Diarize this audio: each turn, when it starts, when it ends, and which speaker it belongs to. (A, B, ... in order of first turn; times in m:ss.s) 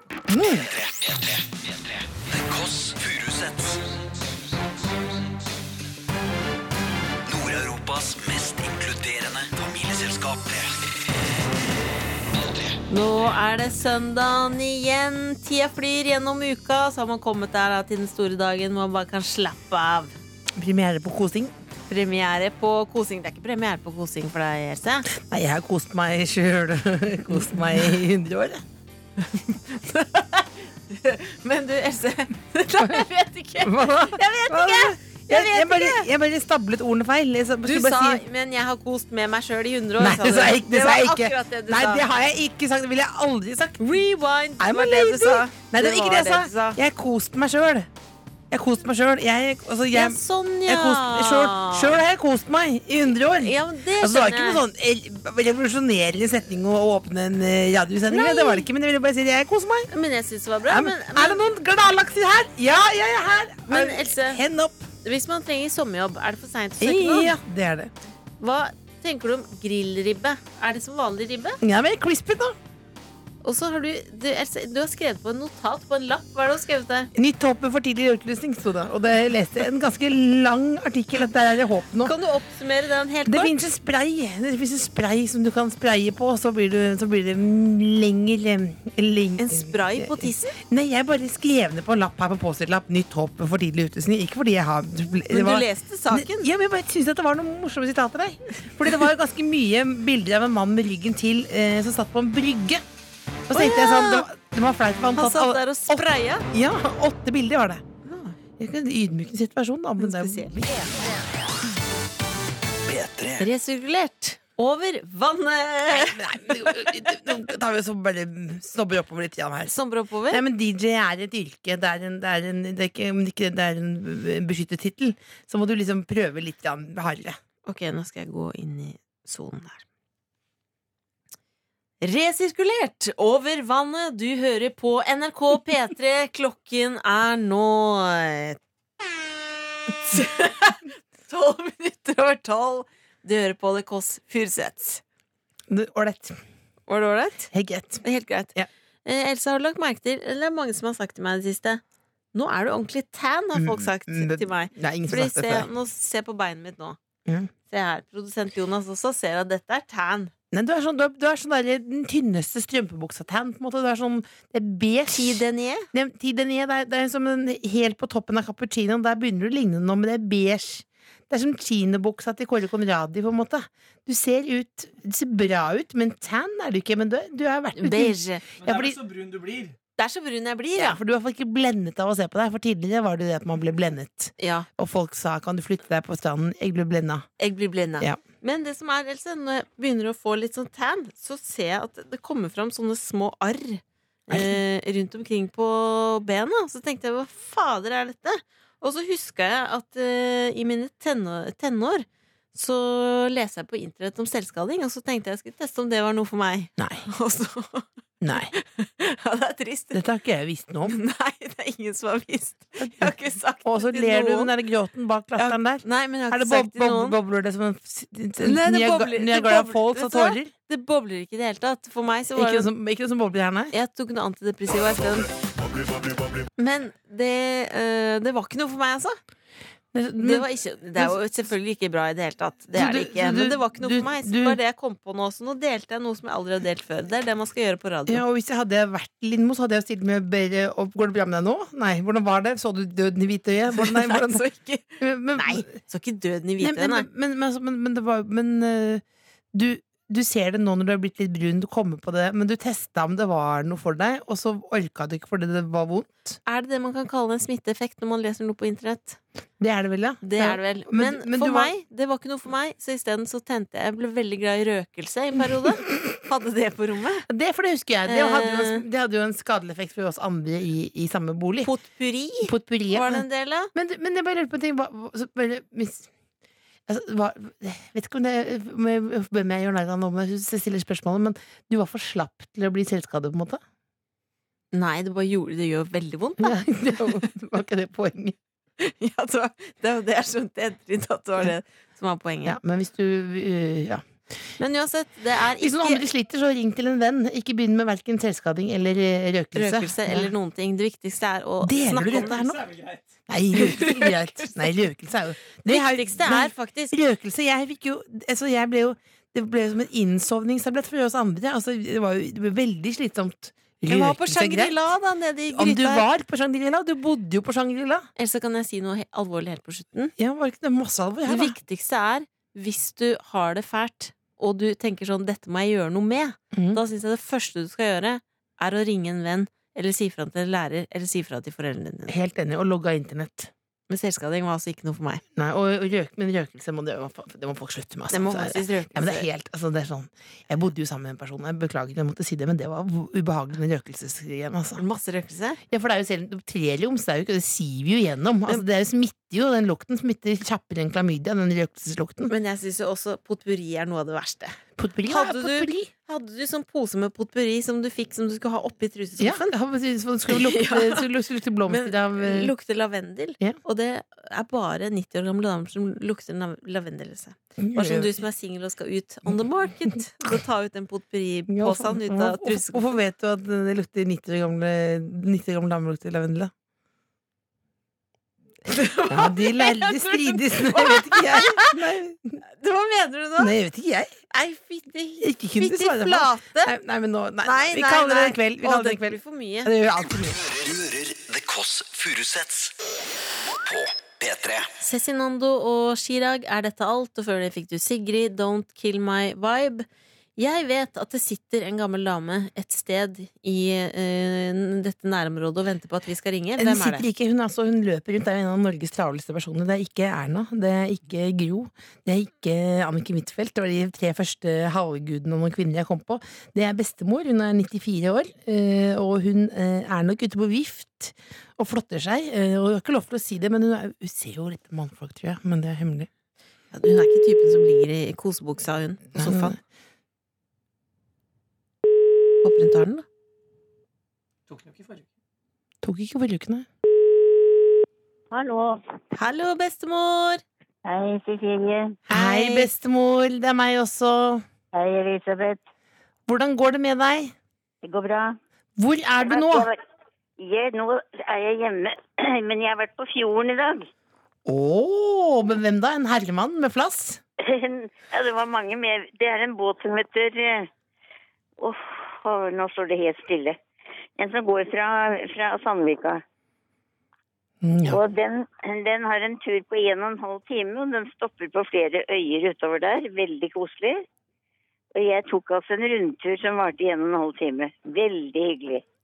0:00.3-0:00.7 A
0:00.5-0:03.8 B
0:07.3-0:10.9 B
0:12.3-0:12.8 B
0:12.9-0:20.2 C
0:20.6-0:21.5 A
0:21.9-0:25.1 C
0:25.1-0:28.6 A
0:29.3-0:36.1 C
0:32.8-0:33.1 A
0:33.6-0:38.2 A
0:37.6-0:42.0 C
0:40.0-0:43.9 A
0:43.8-0:46.8 C
0:44.6-0:47.9 A
0:48.5-0:59.9 A
0:49.9-0:52.0 C
0:53.4-0:54.6 C
0:58.1-0:58.7 C
0:59.9-1:01.4 C
1:00.7-1:04.9 A
1:03.7-1:04.4 C
1:05.0-1:07.4 C
1:06.8-1:07.9 A
1:08.4-1:11.6 C
1:11.6-1:12.6 A
1:13.4-1:17.1 C
1:17.2-1:22.1 A
1:22.0-1:23.5 C
1:23.3-1:42.8 A
1:29.4-1:30.6 C
1:35.3-1:36.5 C
1:43.5-1:47.8 A
1:43.5-1:44.3 C
1:45.2-1:46.5 C
1:48.1-1:48.4 C
1:48.6-1:51.0 A
1:50.0-1:50.6 C
1:52.9-1:53.5 B
1:53.4-1:57.0 C
1:55.9-1:59.8 A
1:59.7-2:00.4 C
2:00.3-2:07.4 A
2:07.6-2:09.8 C
2:12.0-2:18.6 C
2:19.9-2:25.0 C
2:25.7-2:26.4 A
2:26.9-2:27.5 C
2:27.5-2:28.7 A
2:28.0-2:28.5 C
2:29.0-2:31.8 C
2:32.3-2:37.0 C
2:33.6-2:35.7 A
2:37.7-2:40.3 C
2:40.5-2:45.4 A
2:45.1-2:45.9 C
2:45.9-2:59.1 A
2:57.8-2:58.5 C
3:00.0-3:01.0 C
3:00.8-3:07.3 A
3:04.4-3:04.7 C
3:07.4-3:27.9 C
3:14.3-3:14.6 A
3:26.8-3:27.1 A
3:28.2-3:28.5 A
3:28.5-3:30.0 C
3:29.9-3:31.0 A
3:30.9-3:34.5 C
3:32.8-3:40.5 A
3:35.4-3:37.2 C
3:38.4-3:42.7 C
3:42.4-3:43.7 A
3:43.7-3:45.3 C
3:46.6-3:49.2 C
3:49.9-3:51.2 A
3:50.2-3:58.2 C
3:52.7-3:54.6 A
3:58.1-4:04.4 A
4:03.7-4:07.1 C
4:05.0-4:05.8 A
4:06.6-4:09.0 A
4:09.5-4:16.4 A
4:16.5-4:19.2 C
4:19.6-4:21.7 A
4:20.2-4:27.3 C
4:27.3-4:31.7 A
4:28.1-4:28.8 C
4:31.6-4:33.7 C
4:32.4-4:36.1 A
4:36.9-4:43.6 A
4:44.7-4:47.2 C
4:46.4-4:48.4 A
4:48.8-4:52.6 C
4:52.4-4:54.0 A
4:54.6-4:56.1 C
4:55.6-5:00.3 A
4:59.6-5:02.6 C
5:01.6-5:02.7 A
5:03.3-5:14.8 A
5:03.5-5:04.6 C
5:05.6-5:07.0 C
5:13.9-5:16.1 C
5:15.5-5:18.1 A
5:18.2-5:20.1 C
5:20.2-5:21.6 A
5:21.3-5:32.2 C
5:26.5-5:26.8 A
5:32.1-5:33.5 A
5:33.9-5:35.2 C
5:35.4-5:44.8 A
5:38.1-5:39.3 C
5:44.8-5:45.6 C
5:45.7-5:52.3 A
5:52.3-5:59.5 C
5:54.8-5:55.9 A
5:59.2-6:02.5 A
6:00.3-6:01.1 C
6:01.7-6:13.0 C
6:07.6-6:08.2 A
6:11.5-6:16.5 A
6:18.7-6:21.8 C
6:19.1-6:22.4 A
6:22.6-6:23.6 C
6:23.4-6:24.2 A
6:24.3-6:26.8 C
6:25.2-6:30.4 A
6:27.4-6:29.7 C
6:30.2-6:32.8 B
6:33.6-6:34.7 B
6:34.8-6:47.0 C
6:46.6-7:06.1 A
7:06.7-7:09.6 C
7:09.2-7:09.6 A
7:12.4-7:13.1 C
7:15.8-7:16.7 A
7:18.3-7:18.8 D
7:19.1-7:20.4 C
7:20.8-7:22.0 D
7:22.1-7:24.4 A
7:22.1-7:22.7 C
7:24.7-7:25.6 D
7:26.3-7:27.3 A
7:27.8-7:28.4 D
7:28.8-7:29.7 A
7:29.2-7:29.8 D
7:30.4-7:33.9 D
7:34.5-7:37.2 A
7:37.4-7:40.7 D
7:41.6-7:43.6 D
7:44.2-7:46.2 D
7:47.6-7:48.0 A
7:47.9-7:54.0 D
7:55.0-7:58.8 D